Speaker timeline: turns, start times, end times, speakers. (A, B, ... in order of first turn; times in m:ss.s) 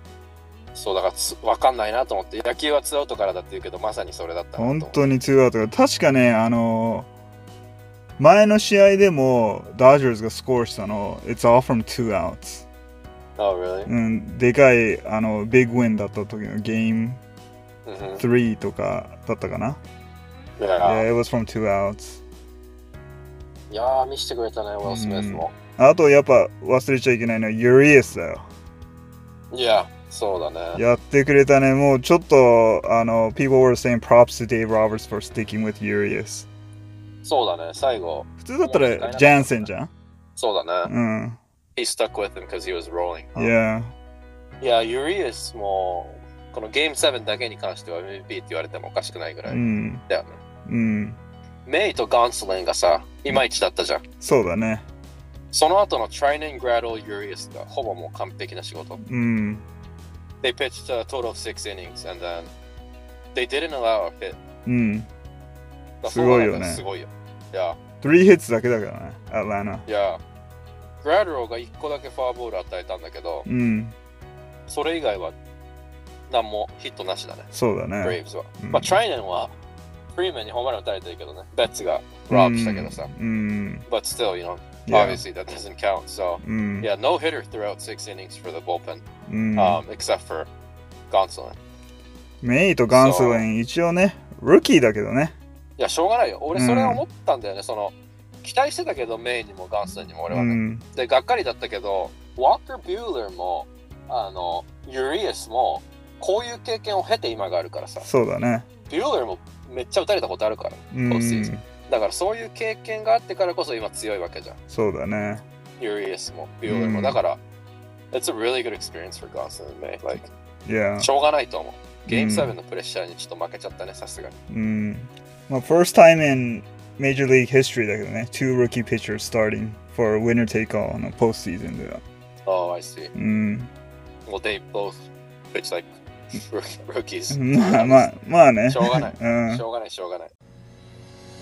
0:00.8-0:05.0 A
0:04.6-0:07.1 B
0:08.2-0:12.7 B
0:13.4-0:13.9 A
0:13.9-0:17.2 B
0:17.8-0:18.2 A
0:18.2-0:19.8 B
0:20.6-0:21.1 A
0:20.8-0:22.2 B
0:23.7-0:25.5 A
0:24.8-0:28.5 B
0:29.5-0:30.8 A
0:30.8-0:36.5 B
0:37.2-0:39.7 A
0:38.4-0:39.9 B
0:40.4-0:40.9 A
0:40.9-0:41.4 B
0:41.8-0:43.5 A
0:43.4-0:43.9 B
0:44.6-0:50.4 A
0:49.5-0:50.0 B
0:50.7-0:51.2 B
0:51.7-0:54.0 A
0:54.2-0:54.9 B
0:55.5-0:59.0 A
0:59.1-0:59.6 B
1:00.4-1:02.5 A
1:03.3-1:04.4 A
1:04.7-1:05.1 B
1:06.0-1:07.8 A
1:06.0-1:06.8 B
1:08.0-1:09.8 B
1:09.9-1:10.2 A
1:11.0-1:13.5 A
1:13.5-1:14.0 B
1:14.7-1:15.4 A
1:16.3-1:17.5 A
1:17.5-1:19.0 B
1:18.0-1:19.6 A
1:20.2-1:23.1 A
1:22.3-1:23.8 B
1:23.9-1:29.0 A
1:24.9-1:25.2 B
1:26.4-1:26.9 B
1:29.3-1:29.8 B
1:29.6-1:30.5 A
1:31.1-1:31.6 A
1:32.4-1:35.4 B
1:32.9-1:33.5 A
1:35.8-1:48.1 A
1:36.6-1:37.0 B
1:40.3-1:40.8 B
1:48.0-1:48.7 B
1:48.9-1:54.6 A
1:50.9-1:51.6 B
1:54.7-1:55.4 B
1:55.8-1:57.4 A
1:56.7-1:57.2 B
1:58.1-2:00.3 A
2:00.7-2:01.1 B
2:01.0-2:04.4 A
2:02.1-2:02.6 B
2:04.5-2:12.0 B
2:12.5-2:13.1 A
2:13.2-2:13.7 B
2:14.3-2:18.1 A
2:17.3-2:19.6 B
2:18.7-2:20.3 A